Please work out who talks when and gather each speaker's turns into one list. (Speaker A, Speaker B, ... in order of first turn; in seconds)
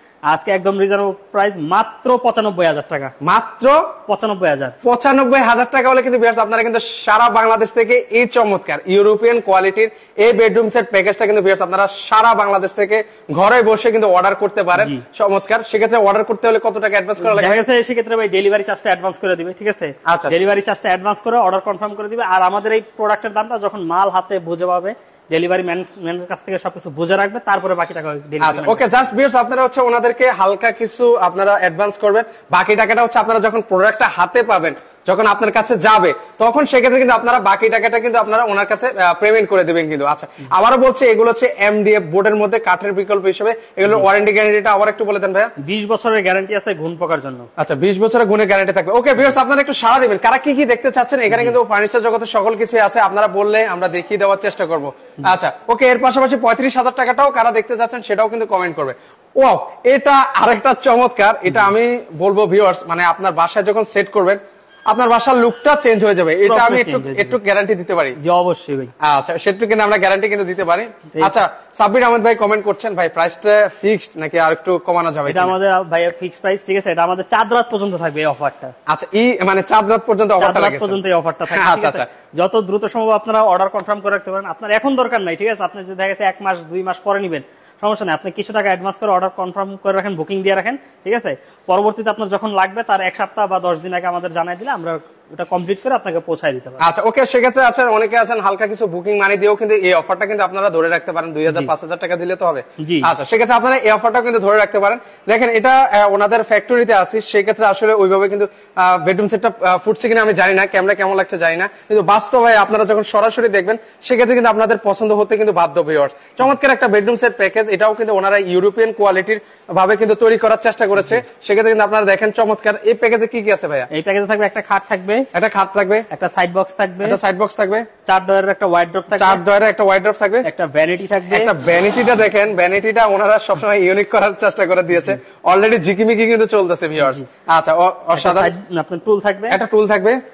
Speaker A: 0.3-3.1, 4.1-4.8, 14.8-15.0, 17.2-28.8, 45.6-47.5, 51.3-51.6, 66.4-67.4, 68.2-68.9, 71.1-71.4, 75.3-78.7, 80.4-96.8, 102.8-103.1, 123.9-125.3, 126.1-127.2, 128.0-129.4, 130.4-131.5, 137.0-137.2, 138.2-139.6
Speaker B: 3.2-3.8, 4.8-17.6, 20.1-20.4, 28.4-45.5, 47.6-68.2, 69.0-75.5, 78.9-82.0, 96.8-123.9, 125.3-126.1, 127.0-127.9, 129.2-130.5, 131.3-138.5, 139.5-140.2